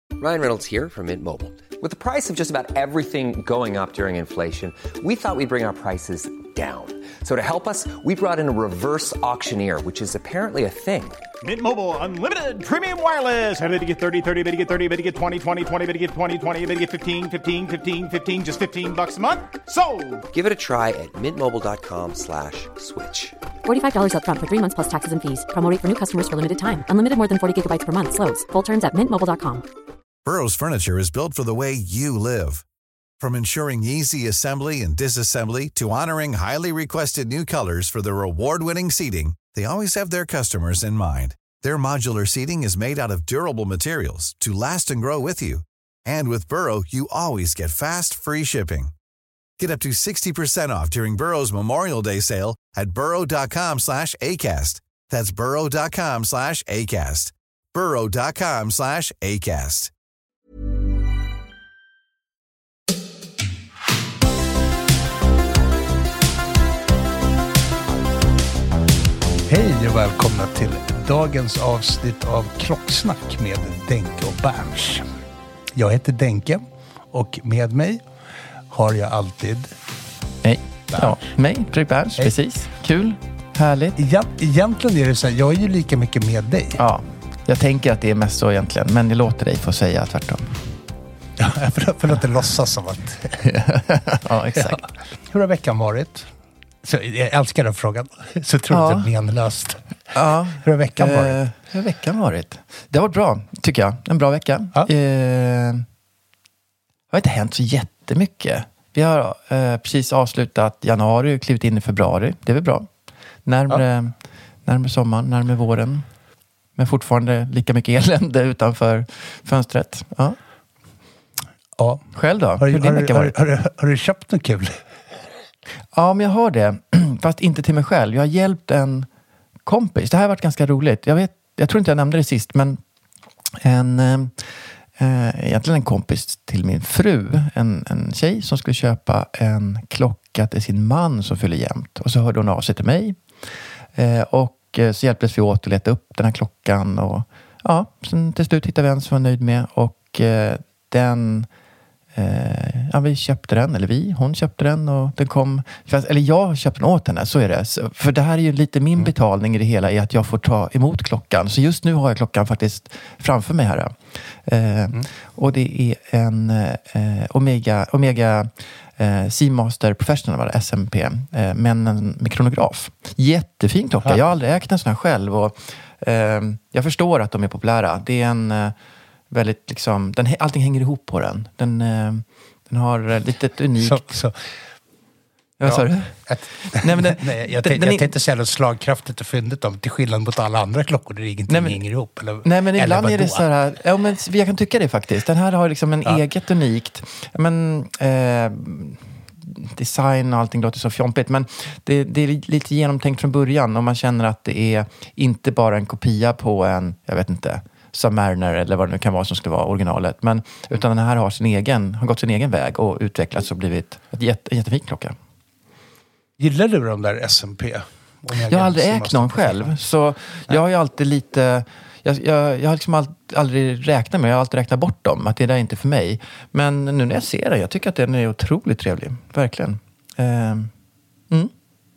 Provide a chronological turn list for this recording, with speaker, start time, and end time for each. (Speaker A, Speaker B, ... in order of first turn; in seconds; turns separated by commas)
Speaker A: 0.2-11.2, Speaker B: 11.4-20.2, Speaker A: 20.3-23.4, Speaker C: 23.6-29.6, Speaker D: 30.2-32.6, Speaker D: 33.2-48.9, Speaker D: 49.6-59.9, Speaker E: 69.5-75.1, Speaker E: 75.7-78.0, Speaker E: 78.7-79.7, Speaker F: 80.4-84.0, Speaker E: 80.9-81.3, Speaker E: 84.0-86.8, Speaker F: 86.8-90.6, Speaker E: 91.4-93.5, Speaker F: 93.4-94.8, Speaker E: 94.6-96.3, Speaker E: 96.8-99.8, Speaker F: 98.7-99.1, Speaker F: 100.1-105.8, Speaker E: 100.6-101.4, Speaker F: 107.1-112.9, Speaker F: 113.4-116.0, Speaker F: 116.8-120.4, Speaker E: 121.8-122.0, Speaker F: 122.1-123.3, Speaker E: 122.6-124.8, Speaker F: 125.9-129.1, Speaker F: 129.6-132.8, Speaker F: 133.6-143.2, Speaker F: 143.9-151.5, Speaker F: 152.1-178.7, Speaker F: 179.3-184.0, Speaker E: 183.8-184.4, Speaker F: 185.6-188.1, Speaker E: 185.6-193.5, Speaker F: 191.5-191.8, Speaker F: 192.4-215.1, Speaker E: 216.4-219.7, Speaker F: 218.5-230.7